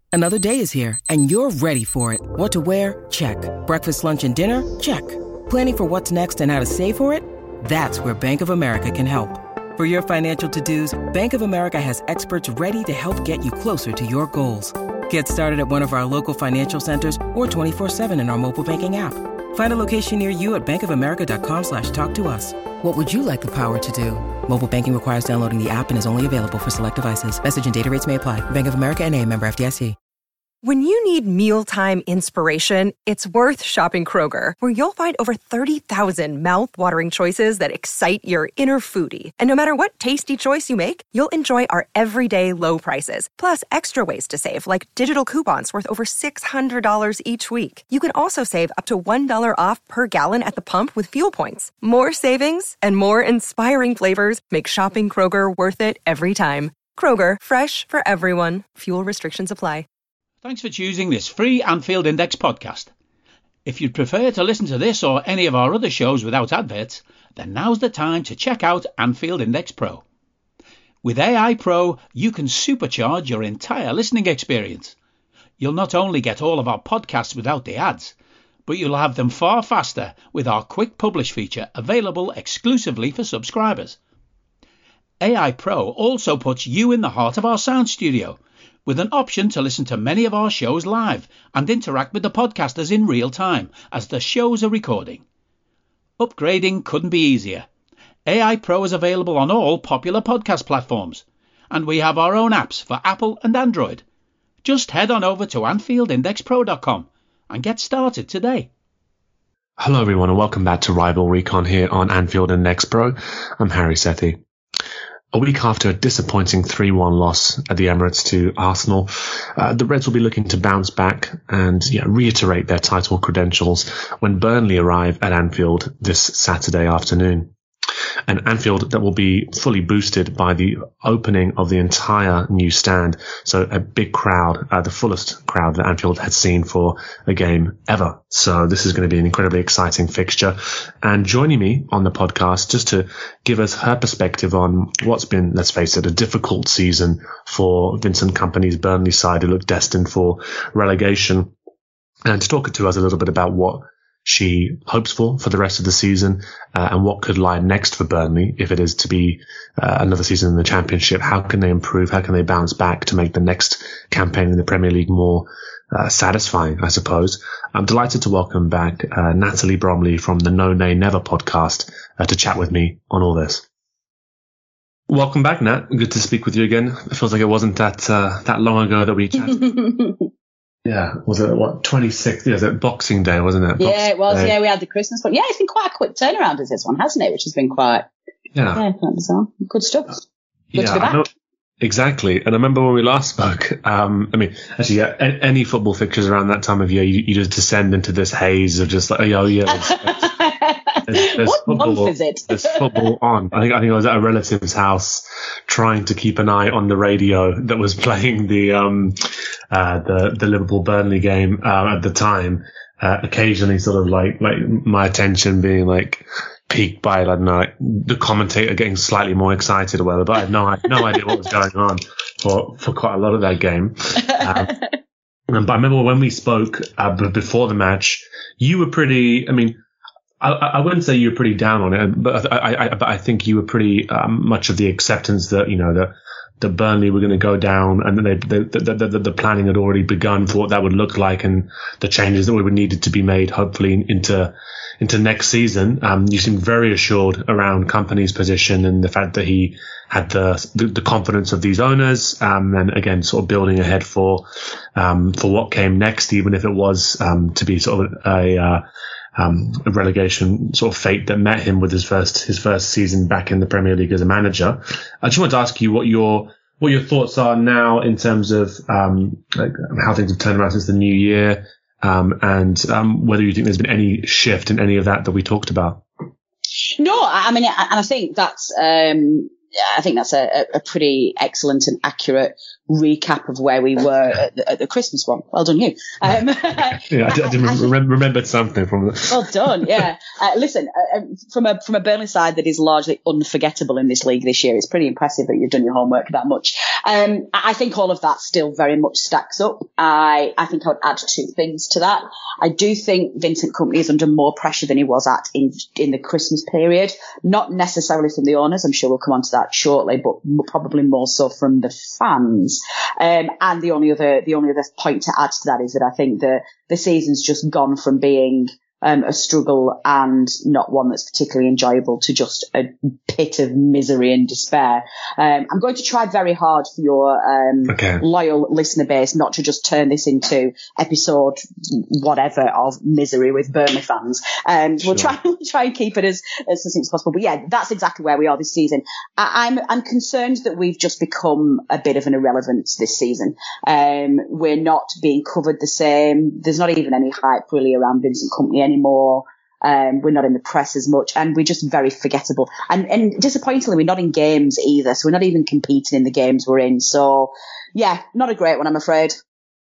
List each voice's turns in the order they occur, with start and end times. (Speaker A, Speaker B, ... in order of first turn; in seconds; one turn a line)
Speaker A: 0.1-29.9
Speaker B: 30.6-59.9
Speaker C: 60.4-62.9
Speaker C: 63.6-70.0
Speaker C: 71.0-75.0
Speaker C: 75.6-78.1
Speaker C: 78.7-84.0
Speaker C: 85.2-95.2
Speaker C: 96.2-97.7
Speaker C: 98.2-104.0
Speaker C: 104.6-108.7
Speaker D: 109.8-114.4
Speaker D: 115.3-127.5
Speaker D: 128.3-151.5
Speaker D: 152.2-173.6
Speaker D: 175.1-179.7
Speaker E: 179.4-180.3
Speaker D: 180.8-184.5
Speaker E: 183.8-188.1
Speaker D: 188.5-188.8
Speaker E: 188.7-190.2
Speaker D: 190.7-191.3
Speaker E: 190.7-191.2
Speaker D: 191.8-200.3
Speaker E: 199.8-203.1
Speaker D: 201.1-209.2
Speaker D: 209.7-224.7
Speaker E: 220.9-221.3
Speaker E: 224.3-224.8
Speaker D: 225.5-229.8
Speaker D: 230.4-258.8
Speaker D: 259.4-276.0
Speaker E: 277.0-287.9
Speaker D: 287.1-290.0
Speaker E: 289.3-359.3
Speaker D: 327.9-328.2
Speaker D: 335.0-335.3